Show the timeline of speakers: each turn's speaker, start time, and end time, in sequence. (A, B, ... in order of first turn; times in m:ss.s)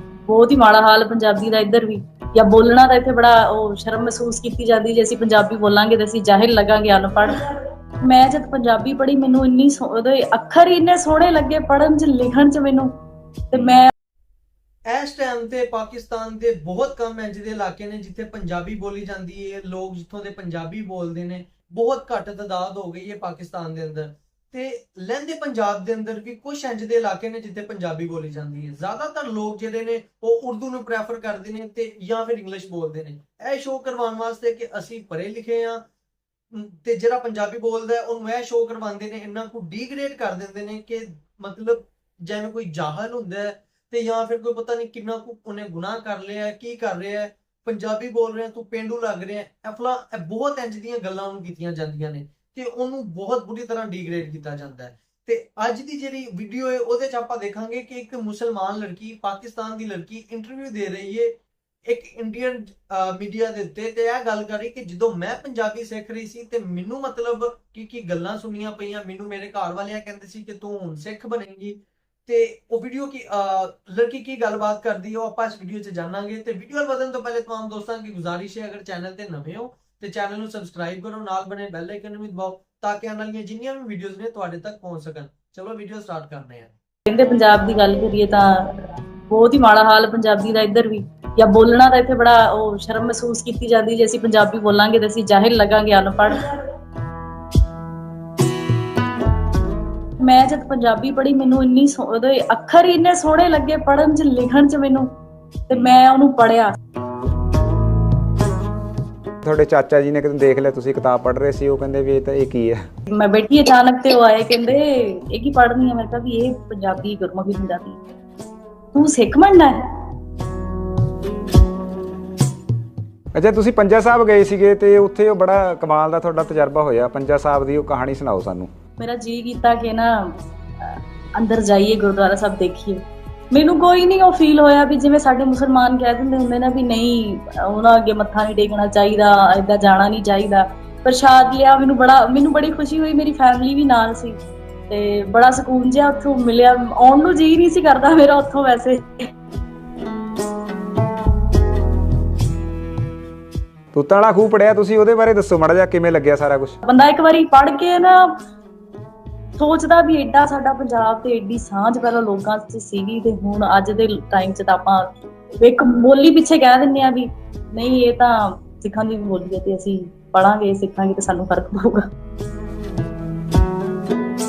0:00.3-0:07.5 A
0:08.0-0:12.9 A
0:13.5-0:13.9 A
0:14.9-0:35.8 B
0:36.5-1:26.7 B
1:27.1-1:28.8 A
1:29.3-1:36.6 A
1:40.2-1:45.1 A
1:45.7-1:46.7 A
1:49.4-1:52.8 C
1:53.1-1:58.0 A
1:58.9-1:59.8 A
2:03.3-2:08.7 C
2:09.0-2:29.3 A
2:33.9-2:36.8 C
2:36.8-2:38.4 A
2:39.6-2:52.0 A